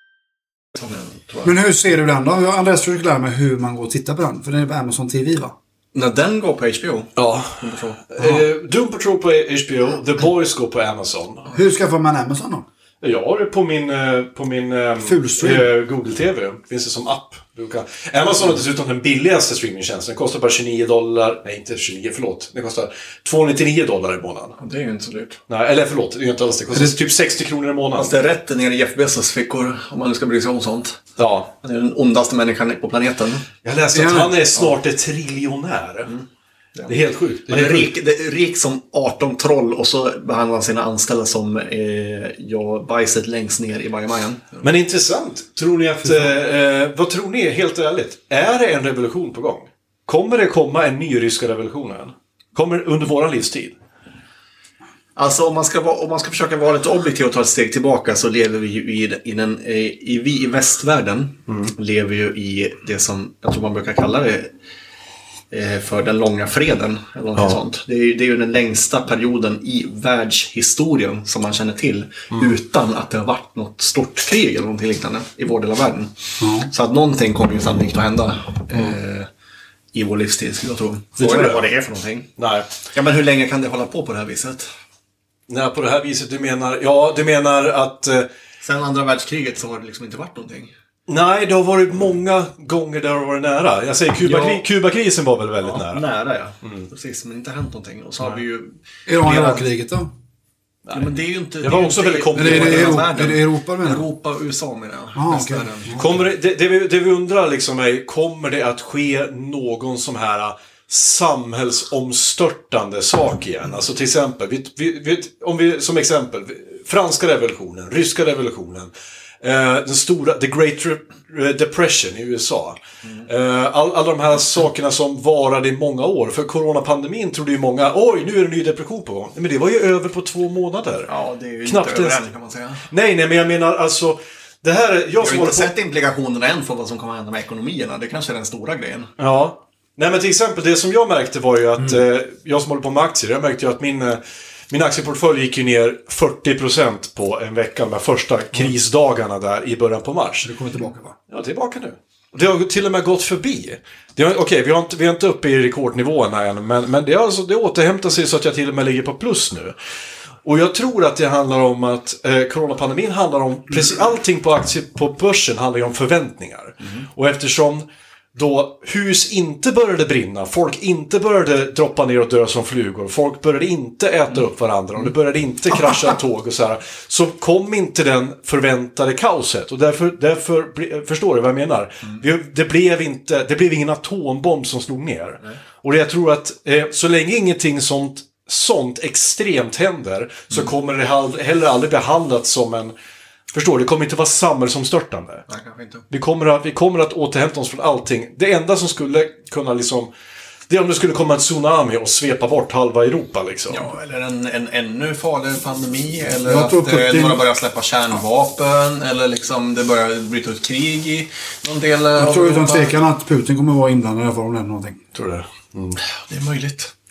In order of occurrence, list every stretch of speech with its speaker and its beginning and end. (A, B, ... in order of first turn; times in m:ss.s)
0:00.8-0:01.6 A
0:01.4-0:05.6 B
0:05.9-0:08.0 A
0:07.2-0:11.5 C
0:11.5-0:12.7 B
0:13.0-0:24.6 C
0:15.0-0:15.7 B
0:24.6-0:25.4 A
0:25.5-0:28.2 C
0:28.0-0:31.0 A
0:31.2-0:31.5 C
0:31.6-0:33.5 A
0:33.6-0:36.1 C
0:33.9-0:34.5 B
0:36.9-0:37.9 C
0:37.5-0:44.6 A
0:44.6-0:53.8 C
0:55.2-1:04.5 A
1:05.5-1:16.1 A
1:16.4-1:16.7 B
1:16.7-1:19.3 A
1:19.9-1:22.3 A
1:21.2-1:21.6 C
1:22.4-1:22.7 C
1:22.9-1:24.7 A
1:25.5-1:28.3 C
1:28.6-1:30.7 A
1:31.1-1:36.0 C
1:34.2-1:34.6 A
1:35.6-1:39.6 A
1:36.6-1:36.9 C
1:39.1-1:40.1 B
1:40.8-1:43.1 C
1:40.9-1:46.1 A
1:42.3-1:44.1 B
1:45.2-1:46.2 B
1:46.0-1:58.9 C
1:59.4-2:11.1 C
2:11.1-2:12.8 A
2:11.6-2:12.2 C
2:12.9-2:15.7 C
2:15.2-2:19.1 A
2:19.2-2:30.5 C
2:30.4-2:31.2 B
2:31.3-2:39.8 C
2:40.4-3:12.9 C
3:13.5-3:15.5 C
3:15.5-3:16.0 A
3:16.1-3:20.1 C
3:20.7-3:23.8 C
3:23.7-3:32.9 A
3:26.5-3:27.4 B
3:32.2-3:35.0 B
3:35.1-3:36.0 C
3:36.1-3:36.9 A